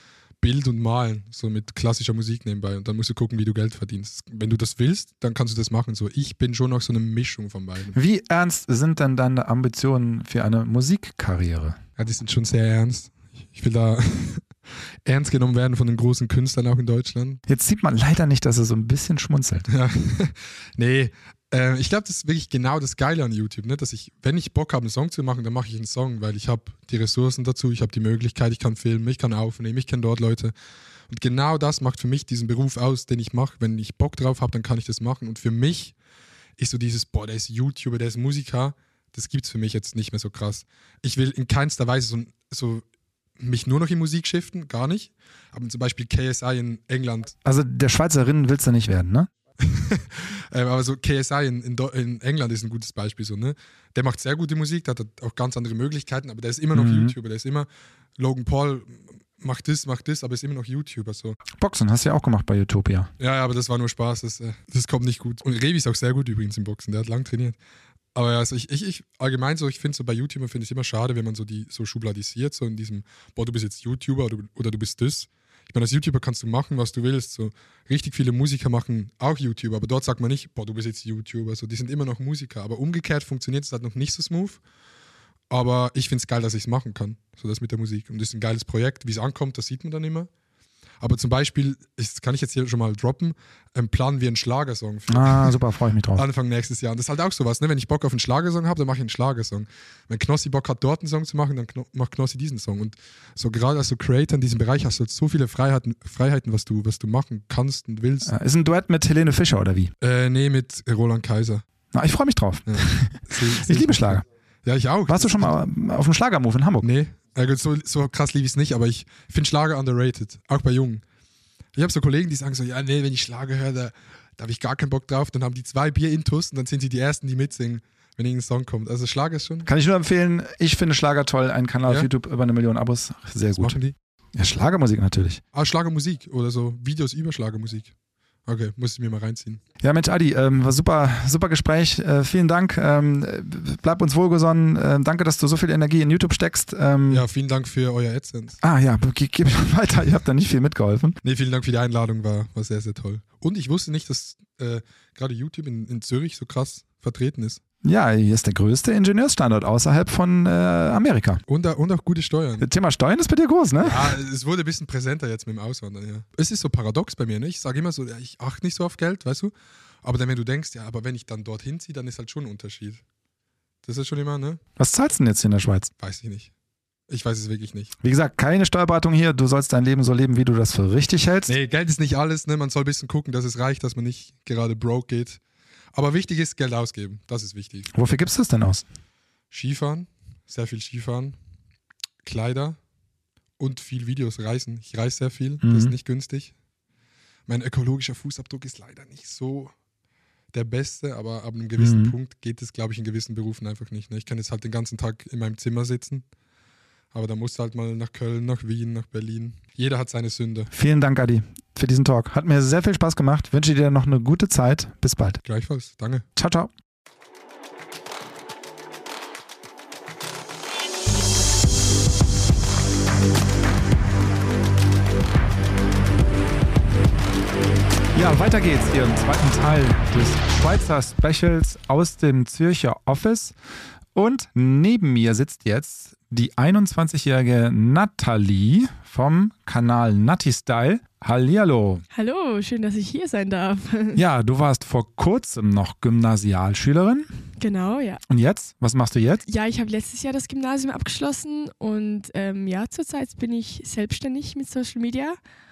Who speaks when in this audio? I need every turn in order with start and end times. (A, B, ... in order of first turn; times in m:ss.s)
0:00.4-0:08.0 A
0:07.9-0:11.8 B
0:12.0-0:14.5 A
0:15.1-0:17.4 A
0:17.5-0:19.7 B
0:19.7-0:30.5 A
0:31.1-0:36.0 A
0:36.6-0:42.8 A
0:43.4-0:47.3 A
0:47.4-0:49.3 B
0:49.6-1:01.4 A
0:56.7-0:57.1 B
1:01.6-1:03.1 B
1:03.2-1:07.6 A
1:08.2-1:24.6 A
1:25.5-1:30.3 A
1:31.0-1:35.6 A
1:35.1-1:36.2 B
1:36.2-1:48.3 A
1:48.2-1:49.9 B
1:50.0-1:51.6 A
1:51.9-1:54.2 B
1:52.7-1:55.6 A
1:55.1-1:56.9 B
1:56.8-2:01.0 A
2:01.8-2:09.7 A
2:09.7-2:13.8 B
2:13.6-2:14.0 A
2:14.4-2:15.4 B
2:15.5-2:17.9 A
2:18.5-2:19.6 A
2:19.8-2:27.2 B
2:27.1-2:28.6 A
2:28.6-2:31.2 B
2:31.2-2:37.6 A
2:37.8-2:41.4 B
2:41.5-2:42.7 A
2:42.6-2:44.1 B
2:43.8-2:53.0 A
2:53.8-2:54.6 A
2:54.8-2:55.9 B
2:56.0-2:56.5 A
2:57.1-2:57.9 A
2:58.0-3:01.5 B
3:01.5-3:05.4 A
3:05.9-3:07.9 A
3:07.9-3:08.8 B
3:09.5-3:11.4 A
3:12.2-3:12.8 A
3:13.6-3:16.5 A
3:15.6-3:15.9 B
3:17.5-3:19.7 A
3:20.5-3:26.2 A
3:21.8-3:22.1 B
3:27.1-3:30.7 A
3:30.7-3:35.4 B
3:35.4-3:36.2 A
3:36.4-3:36.7 B
3:48.2-3:53.6 B
3:54.2-4:02.0 B
4:02.1-4:04.2 C
4:04.2-4:07.3 B
4:07.6-4:08.2 C
4:08.3-4:09.4 B
4:09.5-4:15.4 C